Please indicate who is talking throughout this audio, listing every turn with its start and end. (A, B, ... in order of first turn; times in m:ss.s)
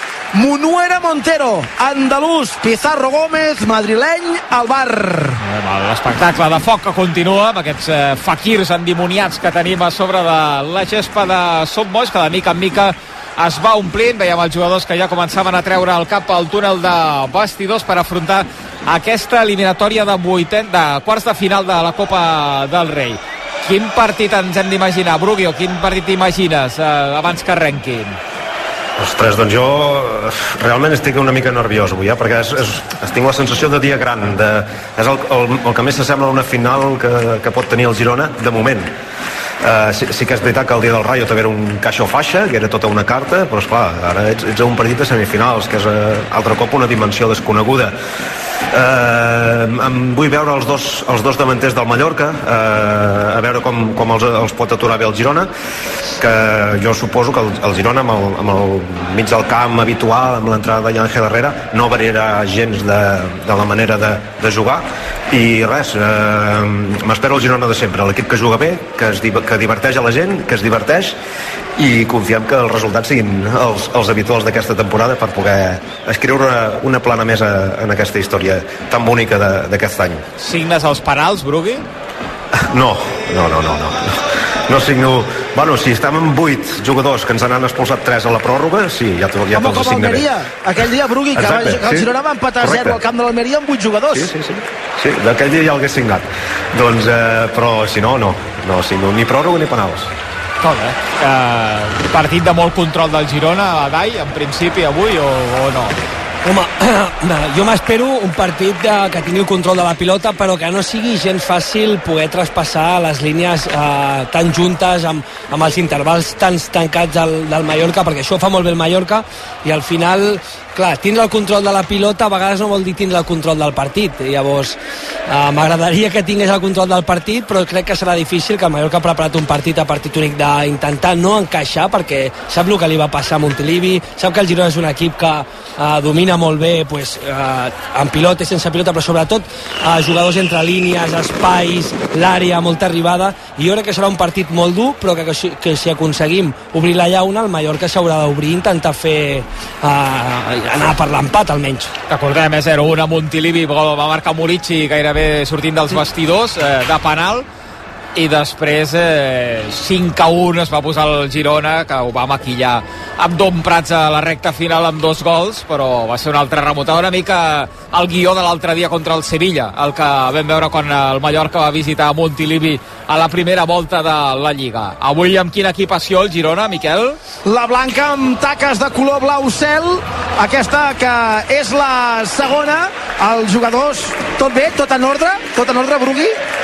0:00.3-0:05.4 A
0:05.4-0:28.2 B
0:29.0-0:38.9 C
0:39.6-0:48.0 C
0:48.7-0:55.5 C
0:56.2-1:11.2 C
1:11.8-1:20.2 C
1:20.4-1:21.8 B
1:22.7-1:30.3 C
1:29.5-1:34.3 A
1:31.3-1:33.0 C
1:34.1-1:40.1 C
1:40.6-1:46.0 B
1:46.4-2:31.9 D
2:32.1-2:37.4 B
2:38.1-2:57.2 B
2:57.4-3:06.4 A